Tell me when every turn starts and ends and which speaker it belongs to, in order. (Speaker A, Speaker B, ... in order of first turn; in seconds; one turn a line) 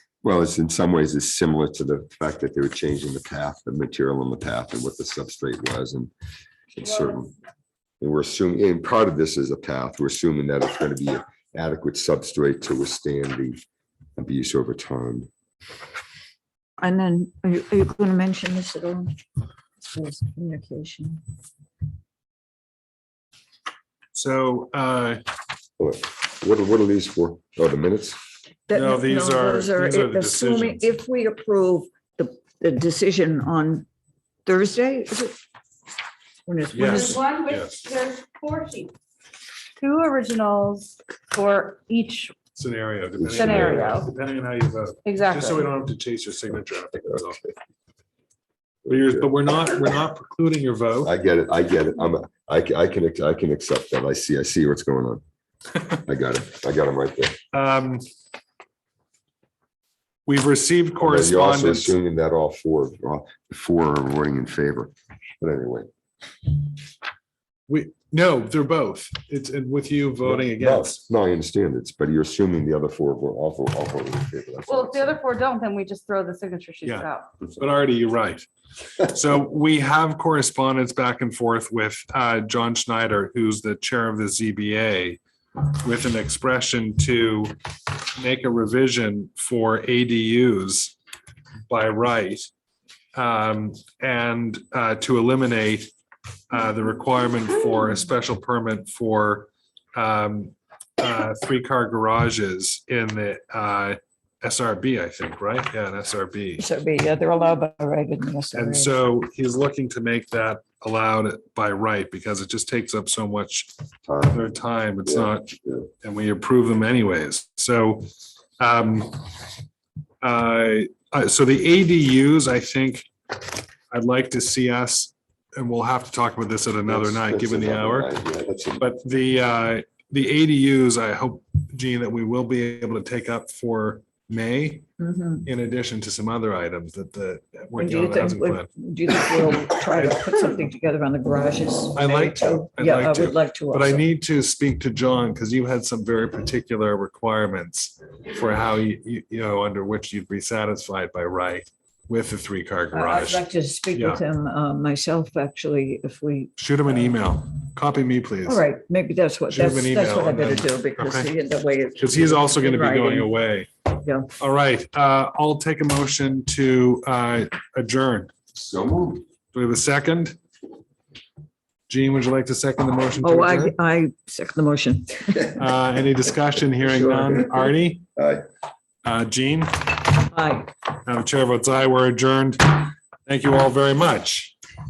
Speaker A: 0.2-6.1
Speaker A: 6.7-7.3
Speaker A: 8.0-13.6
Speaker A: 14.2-15.3
Speaker B: 16.8-19.1
Speaker B: 19.8-21.2
Speaker C: 24.1-25.2
Speaker A: 25.8-28.2
Speaker B: 28.7-33.9
Speaker C: 28.7-30.9
Speaker B: 34.4-35.4
Speaker B: 36.5-37.2
Speaker C: 36.7-37.8
Speaker D: 36.8-38.9
Speaker D: 39.8-42.4
Speaker C: 42.5-47.5
Speaker A: 43.2-44.0
Speaker D: 43.3-44.1
Speaker D: 45.0-45.7
Speaker C: 48.8-51.1
Speaker A: 51.0-55.2
Speaker A: 56.0-57.4
Speaker C: 57.5-58.0
Speaker C: 60.2-61.9
Speaker A: 61.0-65.9
Speaker C: 67.7-71.0
Speaker A: 70.2-75.2
Speaker D: 74.7-77.4
Speaker C: 76.8-78.5
Speaker C: 79.0-90.9
Speaker C: 91.7-92.5
Speaker C: 93.1-95.9
Speaker C: 96.5-106.6
Speaker B: 106.6-108.9
Speaker C: 108.5-113.7
Speaker A: 114.1-114.4
Speaker C: 114.2-119.3
Speaker A: 115.1-115.9
Speaker C: 120.2-123.1
Speaker C: 123.9-128.1
Speaker A: 126.9-128.8
Speaker C: 128.8-134.9
Speaker B: 135.0-135.5
Speaker C: 135.4-138.7
Speaker B: 137.7-144.0
Speaker C: 139.8-140.2
Speaker C: 141.9-154.2
Speaker B: 152.9-156.5
Speaker C: 156.6-158.6
Speaker B: 158.4-163.3
Speaker C: 159.5-161.3
Speaker C: 162.0-163.8
Speaker B: 163.9-164.3
Speaker C: 164.4-168.3
Speaker A: 168.5-169.2
Speaker C: 169.5-170.4
Speaker C: 171.9-173.7
Speaker B: 173.2-175.6
Speaker C: 175.5-178.0
Speaker A: 176.8-178.4
Speaker C: 179.0-180.1
Speaker B: 180.3-180.7
Speaker C: 181.0-184.5